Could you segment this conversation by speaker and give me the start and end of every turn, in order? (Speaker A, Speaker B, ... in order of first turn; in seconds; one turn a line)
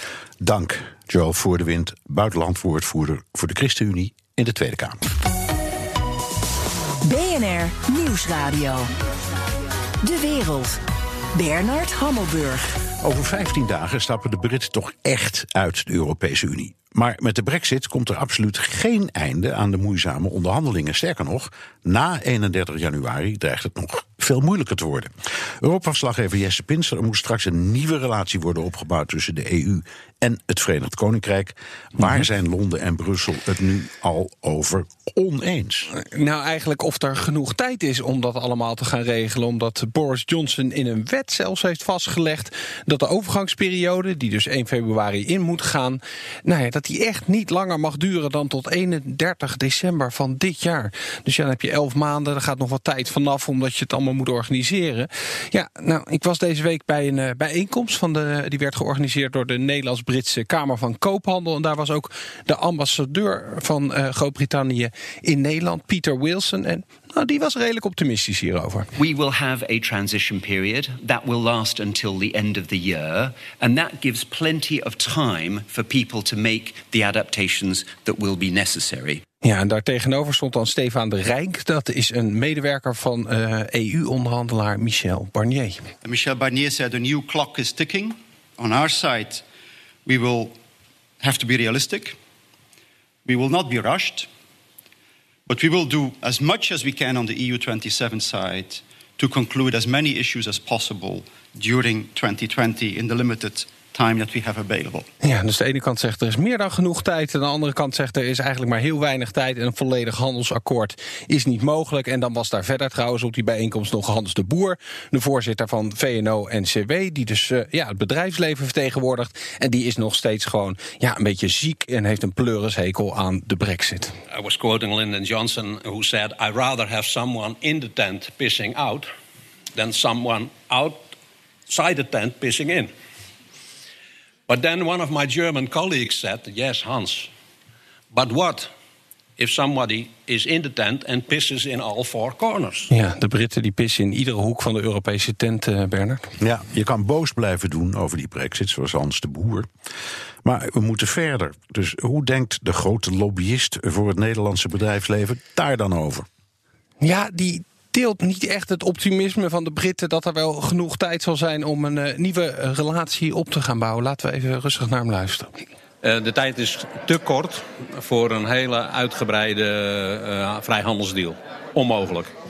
Speaker A: 0.4-5.0
Speaker B: 7.0-8.9
Speaker B: 10.0-10.8
Speaker B: 11.3-12.8
Speaker A: 13.0-35.9
Speaker C: 35.9-68.9
Speaker D: 69.0-79.2
Speaker C: 79.4-85.9
Speaker E: 86.0-89.5
Speaker E: 90.0-90.6
Speaker E: 91.2-92.2
Speaker E: 93.2-94.3
Speaker E: 95.5-105.1
Speaker C: 105.2-124.2
Speaker F: 124.3-129.1
Speaker F: 129.8-131.1
Speaker F: 131.7-132.9
Speaker F: 134.5-137.3
Speaker F: 138.1-138.7
Speaker F: 139.4-142.9
Speaker C: 142.9-146.3
Speaker A: 146.4-149.7
Speaker A: 150.4-156.3
Speaker C: 157.0-165.6
Speaker F: 166.0-172.3